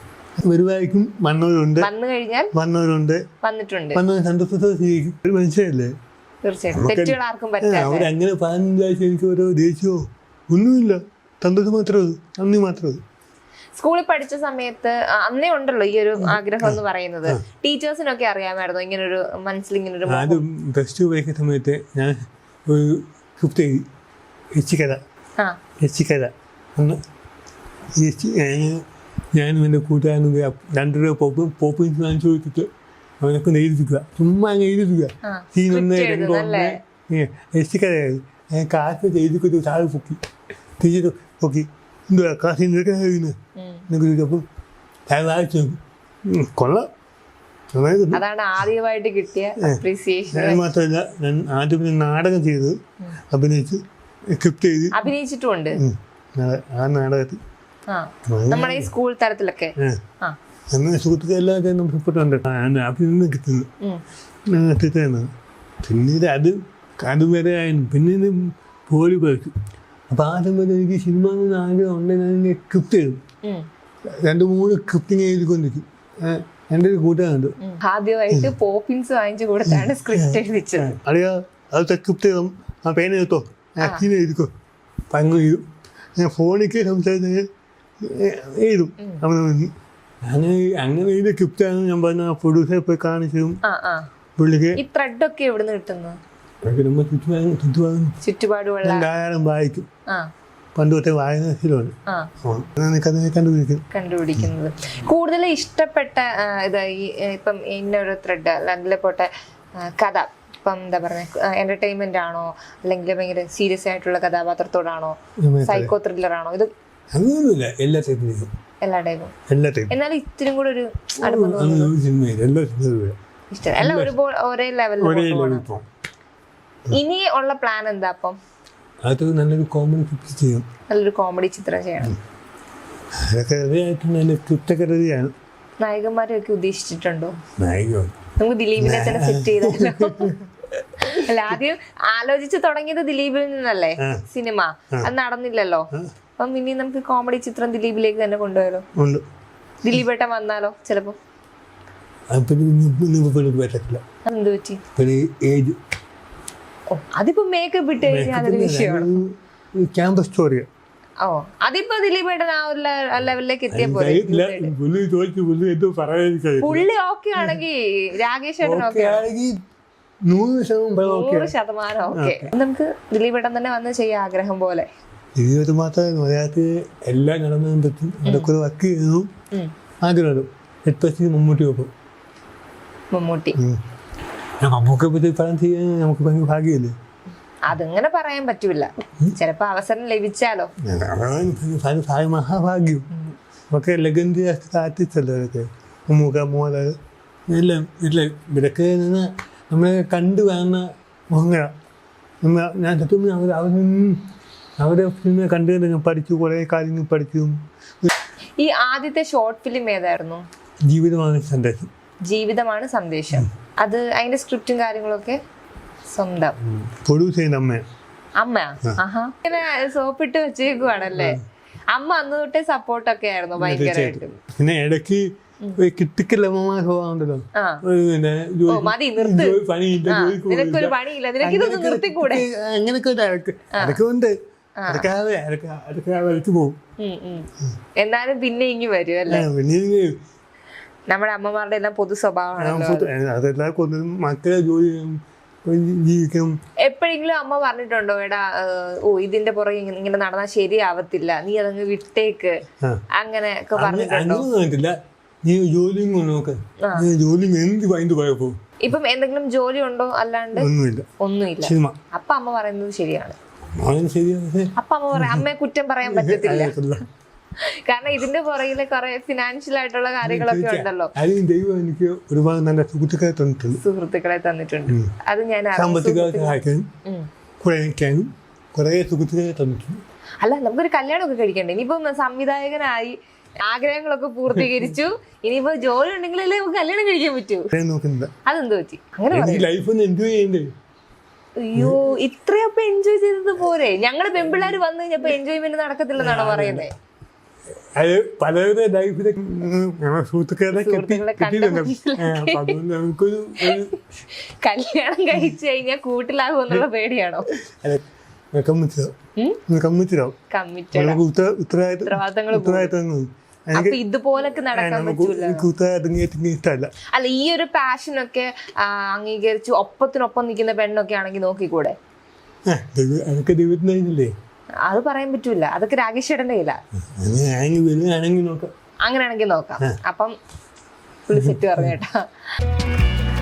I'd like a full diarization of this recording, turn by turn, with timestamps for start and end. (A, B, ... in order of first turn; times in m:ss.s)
0:00.4-0:01.9 A
0:01.8-0:02.5 B
0:02.5-0:03.2 A
0:03.4-0:04.0 B
0:03.9-0:05.9 A
0:06.4-0:08.1 B
0:06.7-0:13.0 A
0:13.8-0:20.4 B
0:16.2-0:17.4 A
0:20.1-0:23.8 A
0:24.5-0:25.0 A
0:25.8-0:27.0 A
0:28.0-0:32.7 A
0:33.2-0:40.2 A
0:35.2-0:36.8 B
0:40.8-0:43.4 A
0:43.6-0:43.8 B
0:43.9-0:44.4 A
0:45.1-0:46.9 A
0:47.7-0:48.2 A
0:48.1-0:50.6 B
0:50.3-0:52.8 A
0:53.3-0:55.1 A
0:54.9-0:55.8 B
0:55.8-0:57.4 A
0:57.9-1:00.4 B
0:58.3-0:58.9 A
1:00.7-1:03.7 A
1:04.5-1:05.3 A
1:05.8-1:09.5 A
1:10.1-1:13.2 A
1:14.2-1:17.6 A
1:17.6-1:20.9 B
1:19.7-1:24.5 A
1:23.8-1:24.1 B
1:25.1-1:25.6 A
1:26.2-1:27.5 A
1:28.0-1:29.7 A
1:30.2-1:33.6 A
1:33.6-1:34.1 B
1:34.4-1:34.8 A
1:34.8-1:36.2 B
1:36.6-1:38.2 A
1:38.2-1:39.0 B
1:38.8-1:39.9 A
1:40.8-1:43.8 A
1:43.9-1:56.7 B
1:55.4-1:55.9 A
1:57.1-1:58.5 A
1:58.8-1:59.3 B
1:59.5-1:59.9 A
1:59.9-2:01.9 B
2:01.2-2:03.2 A
2:03.5-2:05.7 B
2:03.8-2:04.1 A
2:05.0-2:05.9 A
2:06.9-2:08.4 B
2:09.0-2:10.6 A
2:10.9-2:12.1 B
2:13.2-2:15.3 A
2:15.8-2:17.4 B
2:17.6-2:18.1 A
2:18.4-2:20.4 B
2:18.8-2:20.4 A
2:21.0-2:21.6 A
2:21.0-2:28.8 B
2:29.0-2:29.2 A
2:29.8-2:31.2 B
2:32.3-2:34.0 A
2:34.3-2:34.8 B
2:35.0-2:35.8 A
2:36.9-2:39.1 B
2:38.0-2:40.7 A
2:41.2-2:44.7 B
2:43.7-2:46.9 A
2:46.6-2:49.2 B
2:48.6-2:49.6 A
2:50.2-2:51.5 A
2:51.0-2:54.9 B
2:52.1-2:52.5 A
2:55.4-2:59.3 A
2:58.2-2:58.5 B
3:00.0-3:01.9 A
3:03.1-3:03.6 B
3:04.6-3:06.9 A
3:07.6-3:10.7 B
3:10.8-3:13.1 A
3:13.7-3:17.0 A
3:17.5-3:21.7 A
3:22.4-3:24.2 A
3:24.8-3:28.1 A
3:28.6-3:30.4 B
3:30.8-3:31.9 A
3:32.3-3:35.4 B
3:36.1-3:36.6 B
3:36.6-3:37.8 A
3:38.4-3:41.4 B
3:41.1-3:41.4 A
3:41.9-3:44.4 B
3:43.6-3:54.3 A
3:47.6-3:47.8 B
3:48.7-3:52.4 B
3:53.7-3:54.0 B
3:54.8-3:55.1 B
3:54.9-3:56.8 A
3:57.0-3:59.5 B
3:59.3-4:00.2 A
4:01.1-4:03.1 B
4:02.6-4:06.6 A
4:06.8-4:12.6 B
4:13.1-4:14.5 B
4:13.8-4:18.6 A
4:16.8-4:17.1 B
4:18.8-4:20.7 B
4:20.6-4:21.1 A
4:21.2-4:23.4 B
4:21.6-4:22.0 A
4:23.8-4:25.5 A
4:24.8-4:26.8 B
4:26.0-4:27.0 A
4:27.6-4:31.1 B
4:30.2-4:33.8 A
4:33.8-4:37.3 B
4:35.8-4:36.9 A
4:37.6-4:40.0 A
4:40.4-4:47.7 B
4:47.7-4:48.3 A
4:48.5-4:49.7 B
4:49.3-4:50.7 A
4:51.6-4:56.9 B
4:51.8-4:52.0 A
4:56.2-4:56.9 A
4:58.0-5:04.0 A
5:00.7-5:02.8 B
5:04.3-5:07.5 B
5:07.6-5:08.0 A
5:08.5-5:09.1 A
5:09.7-5:10.4 A
5:10.5-5:11.2 B
5:10.9-5:14.0 A
5:12.0-5:12.9 B
5:13.7-5:15.7 B
5:14.7-5:16.9 A
5:17.1-5:22.0 B
5:22.7-5:24.3 A
5:24.9-5:26.8 B
5:27.2-5:28.7 A
5:29.0-5:30.4 B
5:31.3-5:32.3 B
5:31.3-5:32.0 A